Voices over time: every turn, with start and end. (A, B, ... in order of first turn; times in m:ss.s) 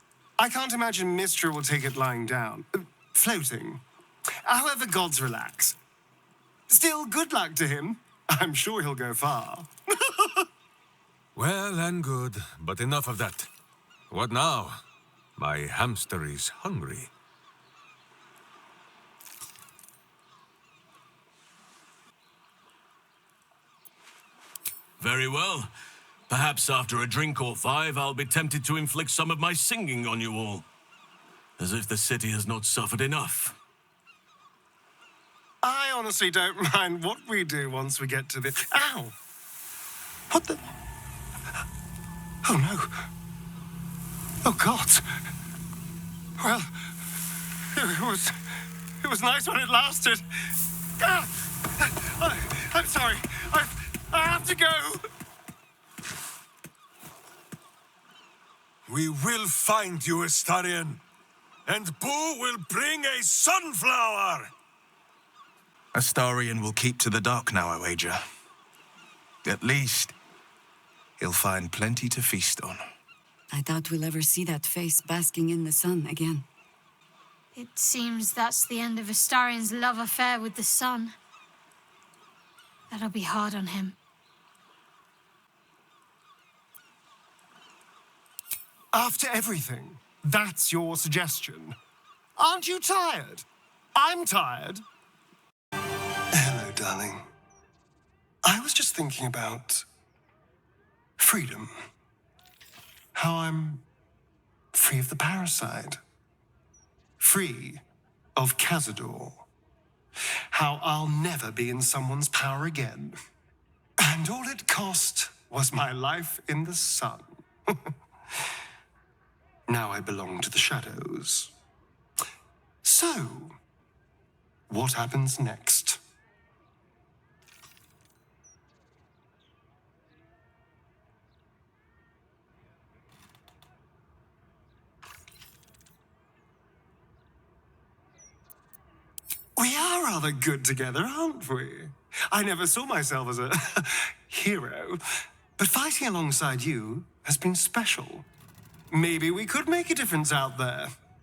0:00.4-0:03.8 A
0:04.5-0:05.8 A
0:06.7-0:10.4 A
0:11.4-0:13.5 B
0:14.1-0:14.8 B
0:15.4-0:17.1 B
0:25.0-0:25.7 C
0:26.3-0:30.6 C
0:31.6-0:33.6 C
0:35.6-0:39.2 A
0:40.3-0:40.6 A
0:42.4-0:43.1 A
0:44.4-0:45.0 A
0:46.4-0:47.1 A
0:47.6-0:48.3 A
0:49.0-0:50.2 A
0:51.0-0:55.0 A
0:58.9-1:01.0 B
1:01.7-1:04.5 B
1:05.9-1:08.2 D
1:09.4-1:10.1 D
1:11.2-1:12.9 D
1:13.5-1:16.5 E
1:17.6-1:21.1 F
1:22.9-1:24.0 F
1:28.9-1:31.8 A
1:32.4-1:34.8 A
1:36.3-1:37.2 A
1:38.4-1:39.9 A
1:41.2-1:41.7 A
1:43.2-1:43.8 A
1:44.7-1:46.0 A
1:47.2-1:47.8 A
1:48.4-1:49.5 A
1:50.5-1:53.2 A
1:54.0-1:57.9 A
1:59.7-2:01.5 A
2:02.8-2:03.5 A
2:04.7-2:06.0 A
2:19.6-2:25.0 A
2:25.6-2:28.3 A
2:28.9-2:30.9 A